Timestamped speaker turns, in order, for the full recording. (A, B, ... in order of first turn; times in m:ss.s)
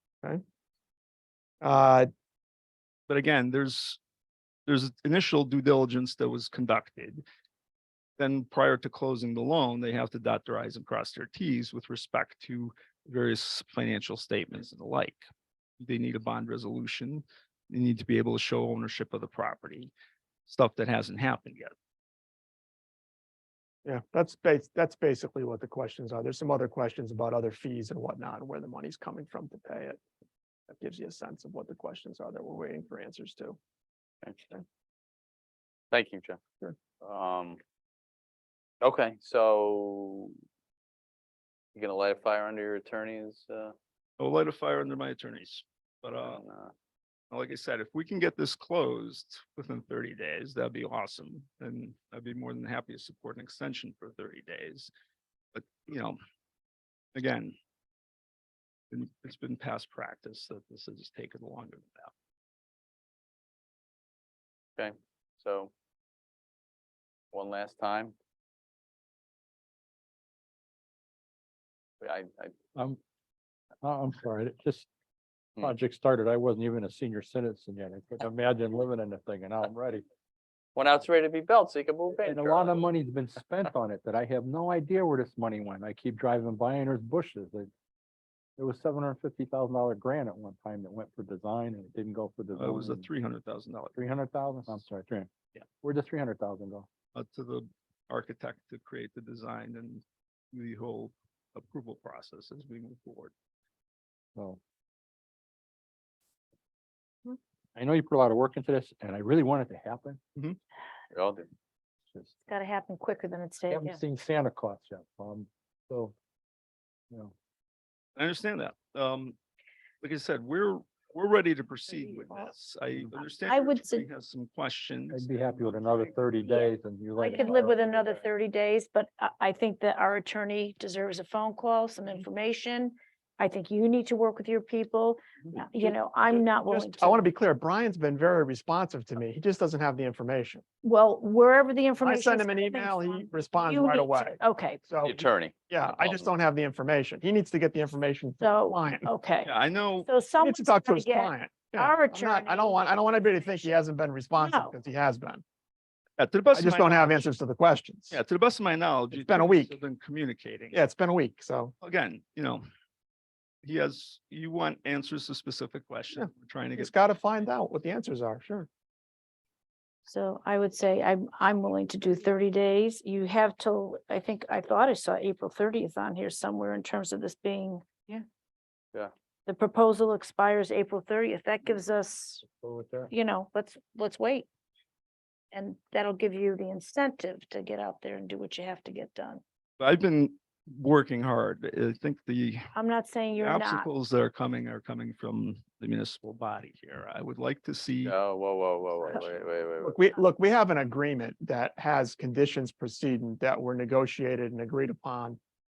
0:01.6-0:02.1 A
0:03.1-0:04.0 B
0:04.7-0:07.2 B
0:08.2-0:15.2 B
0:15.8-0:19.9 B
0:20.4-0:21.7 B
0:23.8-0:30.0 A
0:30.7-0:33.6 A
0:34.2-0:34.6 C
0:35.9-0:36.4 C
0:37.0-0:37.6 C
0:38.8-0:40.3 C
0:41.7-0:43.8 C
0:44.2-0:46.4 B
0:46.2-0:46.7 C
0:47.3-0:54.9 B
0:55.5-0:56.2 B
0:57.1-0:57.6 B
0:58.9-1:02.1 B
1:04.8-1:05.7 C
1:07.3-1:08.1 C
1:12.0-1:12.5 C
1:12.7-1:13.0 D
1:13.8-1:14.9 D
1:15.6-1:20.0 D
1:20.7-1:22.8 C
1:22.2-1:27.7 D
1:28.6-1:33.1 D
1:32.6-1:34.0 B
1:34.0-1:36.9 D
1:37.1-1:43.3 B
1:47.7-1:50.2 D
1:51.1-1:51.5 C
1:52.4-1:54.0 E
1:53.7-1:56.1 D
1:58.2-1:59.4 B
2:00.0-2:06.2 B
2:03.5-2:04.0 E
2:05.1-2:07.8 D
2:06.3-2:17.2 E
2:07.6-2:08.1 C
2:16.6-2:20.6 A
2:20.8-2:24.8 E
2:22.0-2:29.1 A
2:25.0-2:26.3 C
2:28.4-2:29.5 E
2:29.4-2:30.1 B
2:30.0-2:32.9 E
2:30.4-2:35.4 A
2:34.4-2:34.7 E
2:36.2-2:37.3 B
2:36.5-2:38.2 A
2:38.1-2:40.8 B
2:39.1-2:39.7 A
2:40.7-2:41.7 A
2:41.8-2:42.6 B
2:43.6-2:47.0 B
2:46.2-2:48.7 A
2:50.1-2:58.1 E
2:59.5-3:02.5 E
3:02.6-3:03.1 D
3:03.1-3:04.5 E
3:05.5-3:09.4 E
3:09.8-3:12.7 B
3:12.7-3:13.9 E
3:13.4-3:18.1 B
3:18.0-3:20.0 C
3:19.8-3:25.4 A